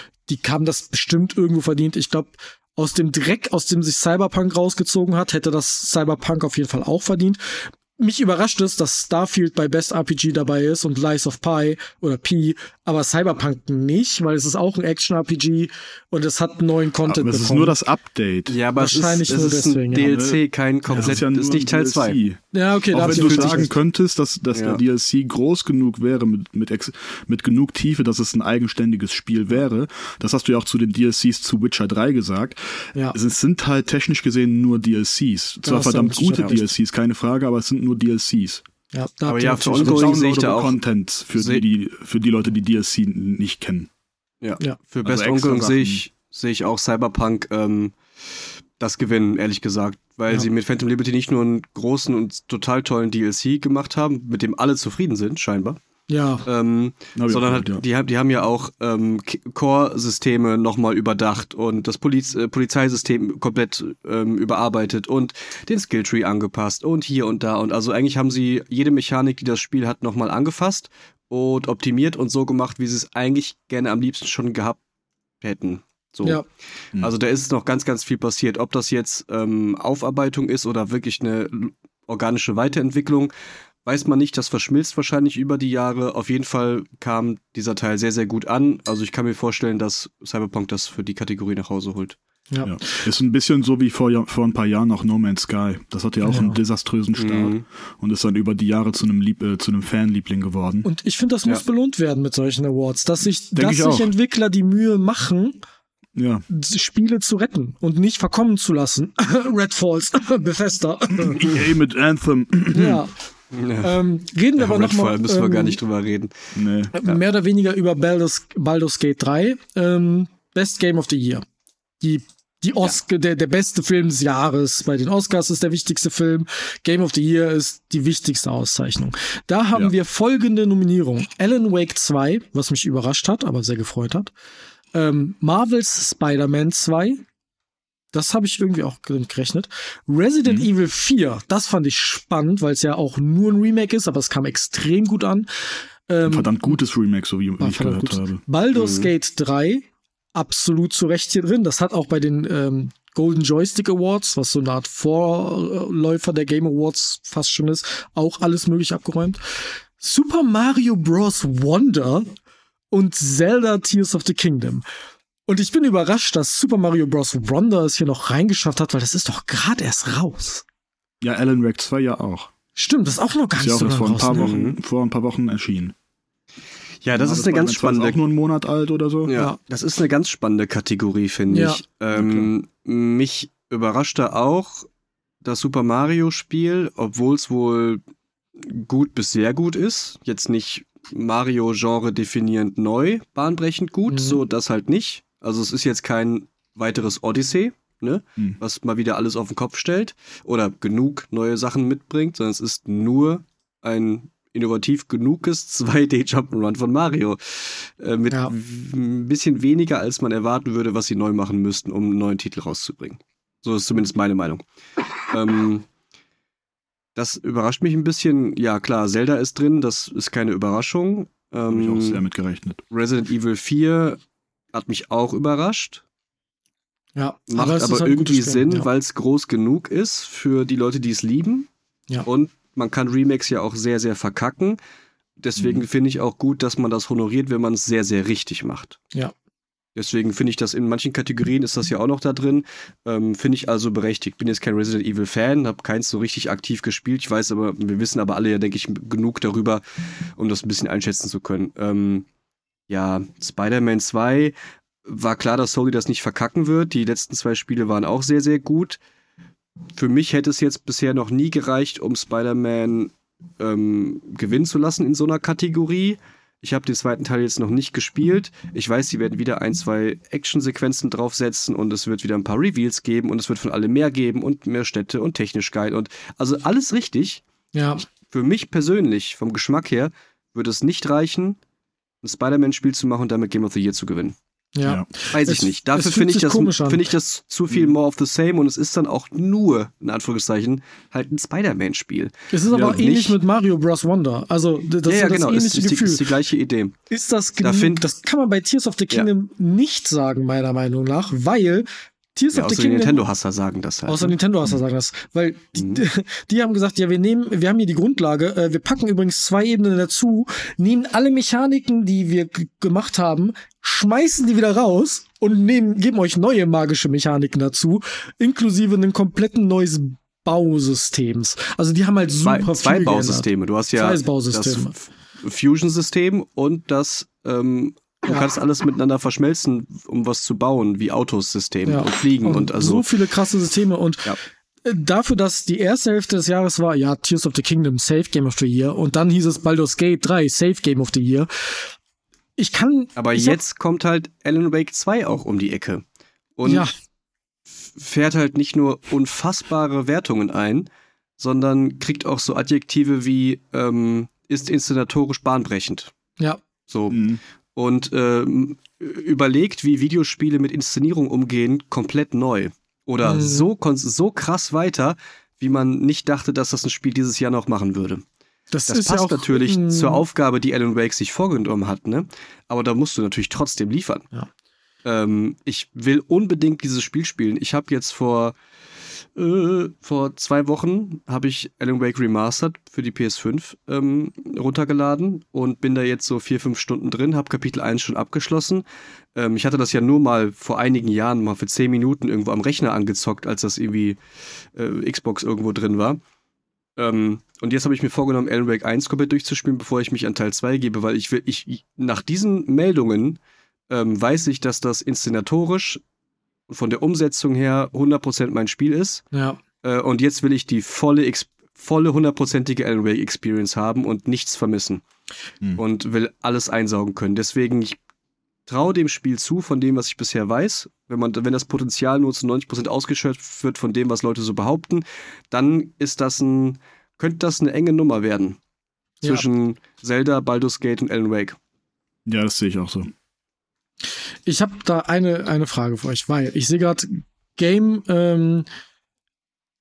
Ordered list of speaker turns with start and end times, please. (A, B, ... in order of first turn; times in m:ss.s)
0:00.2-0:17.8 A
0:17.0-0:18.6 B
0:18.5-0:22.2 C
0:18.8-0:20.2 A
0:20.0-0:38.6 B
0:20.9-0:21.2 A
0:22.5-0:23.7 A
0:22.9-0:23.7 C
0:24.5-0:24.8 C
0:35.6-0:36.7 A
0:38.9-0:40.2 A
0:39.3-0:40.8 C
0:39.7-0:43.9 B
0:41.3-0:41.6 C
0:44.4-0:47.9 C
0:45.0-0:46.0 B
0:48.8-0:55.8 C
0:56.1-0:56.4 A
0:56.4-1:14.8 C
0:57.2-0:57.8 B
1:15.4-1:16.4 C
1:17.0-1:23.3 C
1:23.8-1:32.2 C
1:32.5-1:33.0 A
1:32.6-1:40.8 B
1:36.2-1:36.6 A
1:37.2-1:37.6 C
1:40.8-1:45.6 A
1:43.5-1:44.1 B
1:46.1-1:46.4 B
1:46.5-1:51.5 A
1:51.2-1:53.0 B
1:52.7-1:53.2 A
1:53.5-1:54.0 C
1:53.8-1:55.8 A
1:54.6-1:56.3 C
1:56.5-1:56.9 B
1:56.9-2:01.4 A
2:02.0-2:14.3 A
2:14.9-2:17.2 A
2:18.1-2:26.8 A
2:26.2-2:28.4 B
2:27.6-2:42.3 A
2:28.7-2:29.1 C
2:42.9-2:44.8 A
2:45.5-2:50.6 A
2:51.2-2:52.5 B
2:52.8-2:54.5 A
2:53.6-2:55.9 B
2:54.3-2:54.8 C
2:57.0-2:58.2 C
2:57.2-2:59.3 B
2:59.3-3:04.9 C
3:01.5-3:01.8 A
3:02.1-3:02.5 B
3:05.4-3:08.0 C
3:08.6-3:34.6 C
3:14.1-3:14.4 A
3:35.3-3:35.8 C
3:37.1-3:42.2 C
3:41.7-3:42.8 B
3:42.9-3:44.2 C
3:44.7-3:46.0 C
3:47.2-3:48.9 A
3:47.5-3:51.7 C
3:52.2-3:54.8 C
3:55.4-3:59.0 C
3:55.6-3:55.8 B
4:00.0-4:09.8 C
4:10.4-4:12.2 C
4:12.9-4:14.5 C
4:15.0-4:19.0 C
4:20.0-4:37.4 C
4:37.7-4:38.0 A
4:38.3-4:41.6 C
4:42.2-4:44.3 C
4:44.7-4:47.0 A
4:45.3-4:53.4 C
4:52.5-4:56.3 A
4:52.7-4:53.0 B
4:55.0-4:57.0 C
4:57.1-5:03.2 A
4:57.6-4:58.0 C
5:02.5-5:04.4 C
5:04.1-5:24.9 A
5:22.4-5:33.1 C
5:31.8-5:41.9 A
5:42.6-5:43.6 A
5:43.2-5:46.0 C
5:46.6-5:46.9 C
5:46.6-5:46.9 A
5:47.7-5:50.9 C
5:51.4-5:56.1 C
5:56.9-5:57.2 C
5:57.1-5:57.4 B
5:57.8-6:08.2 C
6:03.2-6:03.7 A
6:08.7-6:10.2 A
6:08.9-6:14.3 C
6:15.0-6:18.5 C
6:19.4-6:34.2 C
6:34.8-6:36.2 C
6:37.0-6:43.4 C
6:43.9-6:46.0 C
6:46.7-6:49.2 C
6:49.3-6:49.6 A
6:49.8-6:55.0 C
6:55.8-6:58.0 C
6:58.7-7:08.6 C
7:09.2-7:11.6 C
7:12.2-7:13.1 B
7:14.4-7:18.7 A